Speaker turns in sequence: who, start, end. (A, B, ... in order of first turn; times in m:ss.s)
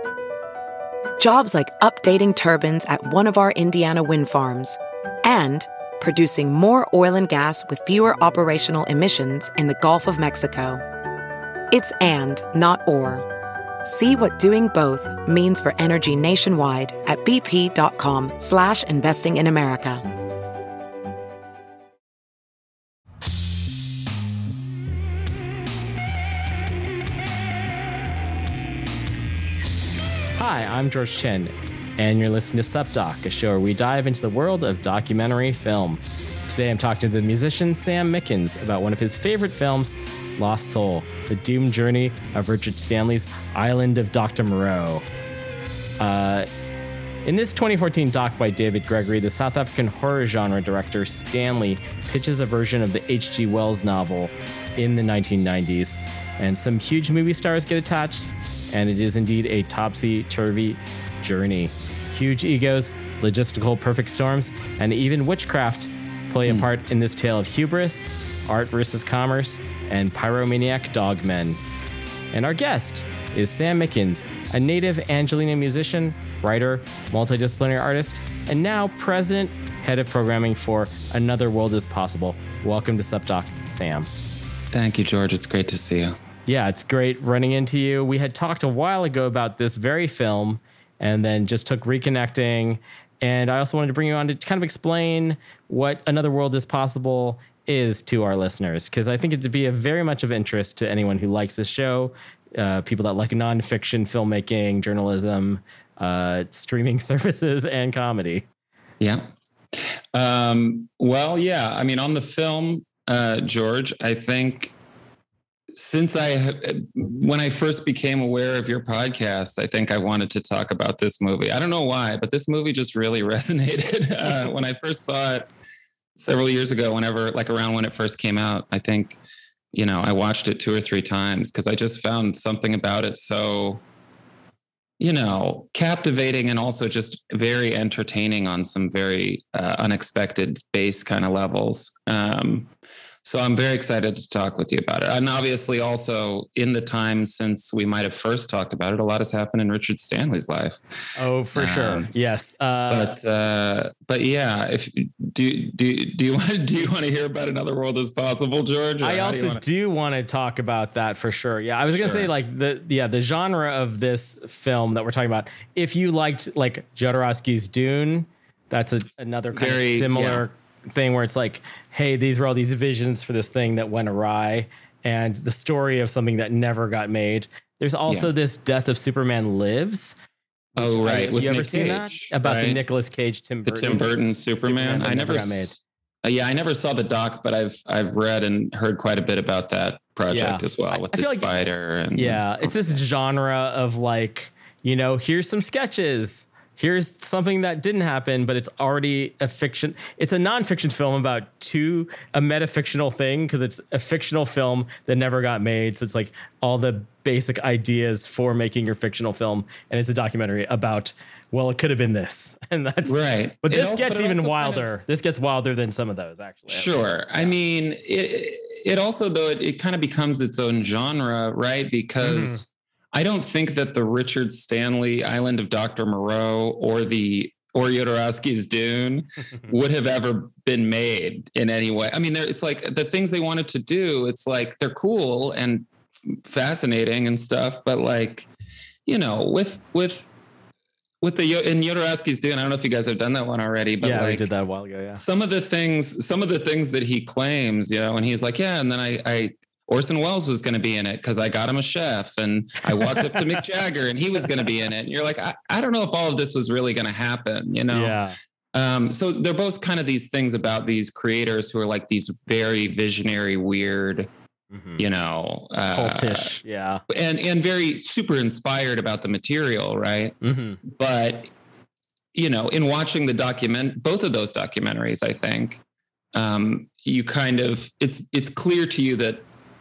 0:01.2-0:10.8 A
0:11.7-0:13.2 A
0:13.8-0:20.0 A
0:30.4-0:45.0 B
0:46.0-0:46.5 B
0:47.3-1:11.6 B
1:12.3-1:24.1 B
1:24.7-1:26.2 C
1:26.5-1:48.4 B
1:49.0-1:54.7 C
1:55.7-2:05.5 C
2:06.2-2:09.2 C
2:09.7-2:13.8 C
2:15.0-2:22.7 C
2:23.2-2:30.8 C
2:31.2-2:33.1 B
2:31.6-2:32.1 C
2:32.9-2:39.6 C
2:39.0-3:00.2 B
2:41.9-2:42.3 C
2:49.5-2:50.5 C
2:58.1-2:58.3 C
3:00.8-3:02.8 C
3:00.8-3:04.1 B
3:03.6-3:13.0 C
3:04.6-3:05.8 B
3:10.3-3:11.5 B
3:12.2-3:37.5 B
3:33.0-3:34.9 C
3:36.7-3:58.5 C
3:42.2-3:42.6 B
3:59.1-4:00.3 C
4:01.2-4:04.5 C
4:04.0-4:05.2 B
4:05.2-4:18.2 C
4:13.0-4:13.4 B
4:17.9-4:18.4 B
4:18.7-4:24.3 C
4:24.7-4:25.0 B
4:25.0-4:26.6 C
4:25.9-4:27.0 B
4:27.1-4:31.5 C
4:30.4-4:30.8 B
4:32.3-4:35.8 C
4:36.3-4:39.4 C